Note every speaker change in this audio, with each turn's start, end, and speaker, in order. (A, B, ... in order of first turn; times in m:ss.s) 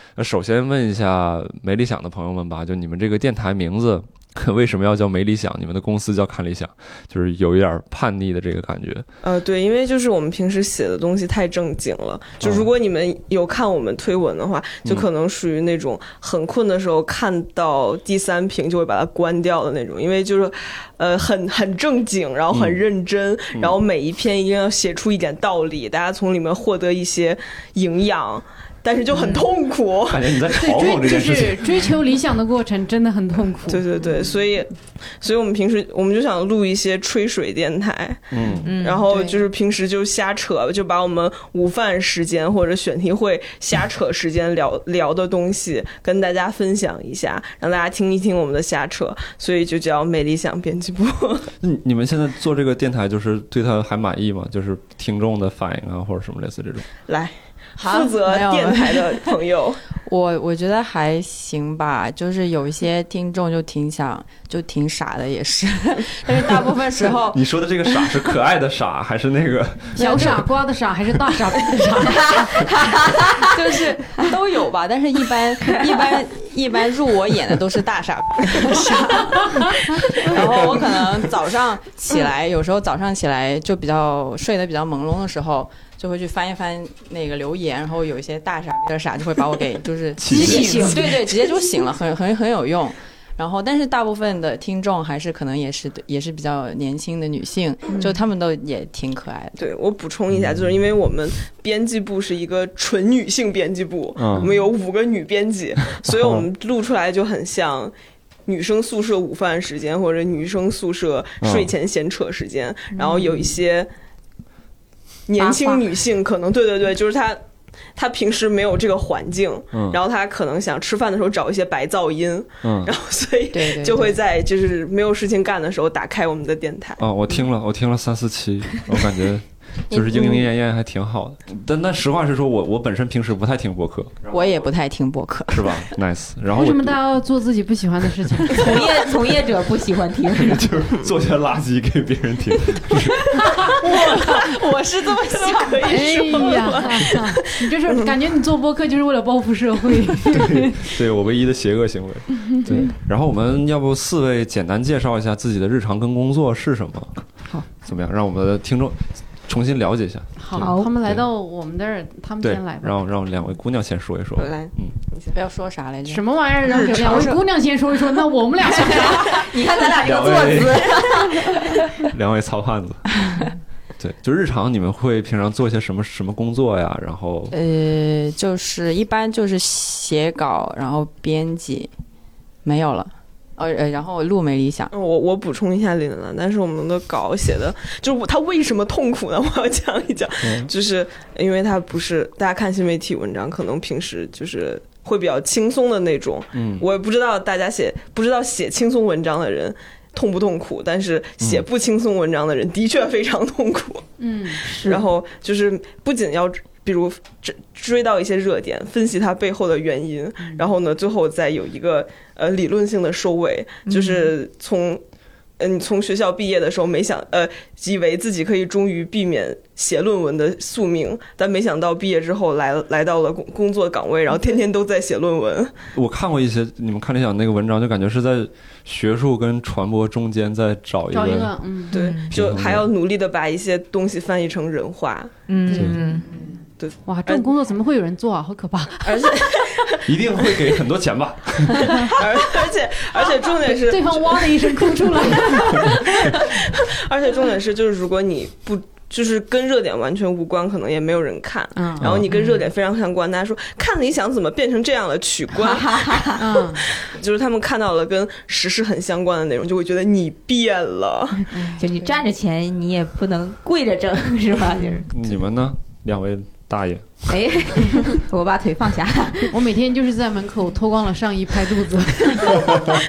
0:00.2-0:09.1 A
0:09.2-0:30.4 B
0:12.4-0:12.7 A
0:22.5-0:22.8 A
0:29.1-0:29.5 C
0:30.1-0:31.9 A
0:30.6-0:33.8 D
0:33.7-0:51.5 B
0:38.3-0:38.7 A
0:38.6-0:39.4 C
0:51.6-0:56.9 A
0:57.1-0:59.8 B
0:57.8-0:59.4 E
1:00.0-1:07.4 E
1:07.3-1:10.4 A
1:10.0-1:12.6 D
1:10.0-1:10.3 E
1:12.1-1:13.5 C
1:13.4-1:39.7 E
1:30.2-1:31.0 A
1:30.3-1:31.0 C
1:39.6-1:47.9 B
1:44.2-1:44.5 A
1:46.1-1:46.4 A
1:48.5-1:53.9 B
1:51.4-1:51.7 A
1:53.0-1:53.2 C
1:55.3-1:57.4 B
1:55.4-1:55.8 C
1:58.0-2:07.0 B
1:59.7-2:00.0 A
2:02.6-2:02.9 A
2:03.5-2:04.2 E
2:07.0-2:14.6 A
2:09.9-2:10.3 E
2:14.3-2:15.9 E
2:15.5-2:17.0 A
2:16.6-2:18.8 D
2:18.5-2:20.8 C
2:20.4-2:23.2 A
2:23.4-2:26.8 E
2:23.7-2:24.2 D
2:23.9-2:24.5 B
2:25.3-2:28.1 B
2:25.8-2:30.8 D
2:30.3-2:37.2 A
2:32.6-2:32.9 D
2:37.8-2:41.2 A
2:40.4-2:43.0 D
2:40.6-2:40.9 C
2:42.4-2:45.0 A
2:44.4-2:45.4 B
2:45.3-2:47.2 E
2:46.1-2:49.5 D
2:46.7-2:47.4 B
2:48.6-2:52.0 C
2:50.0-2:51.3 A
2:52.0-2:53.1 A
2:54.0-2:57.5 A
2:57.5-3:01.9 E
3:02.6-3:04.9 E
3:04.9-3:24.1 B
3:10.4-3:10.7 A
3:16.6-3:16.8 A
3:24.2-3:24.6 D
3:24.6-3:35.0 B
3:24.6-3:25.1 C
3:33.9-3:34.3 C
3:35.6-3:45.7 B
3:46.0-3:51.5 A
3:51.1-3:52.0 D
3:51.9-3:55.3 B
3:51.9-3:52.3 C
3:52.3-3:52.9 A
3:55.5-3:56.3 C
3:55.7-3:56.2 D
3:56.3-3:56.6 E
3:56.8-3:57.5 B
3:57.1-3:59.3 D
3:59.0-3:59.7 E
3:59.2-4:00.5 B
4:00.1-4:02.1 A
4:02.0-4:21.6 B
4:03.7-4:06.4 D
4:11.8-4:12.1 D
4:12.0-4:12.3 A
4:12.3-4:12.6 C
4:15.6-4:16.4 C
4:16.4-4:16.8 D
4:21.7-4:25.1 C
4:25.1-4:27.2 A
4:27.3-4:29.6 C
4:29.5-4:32.9 D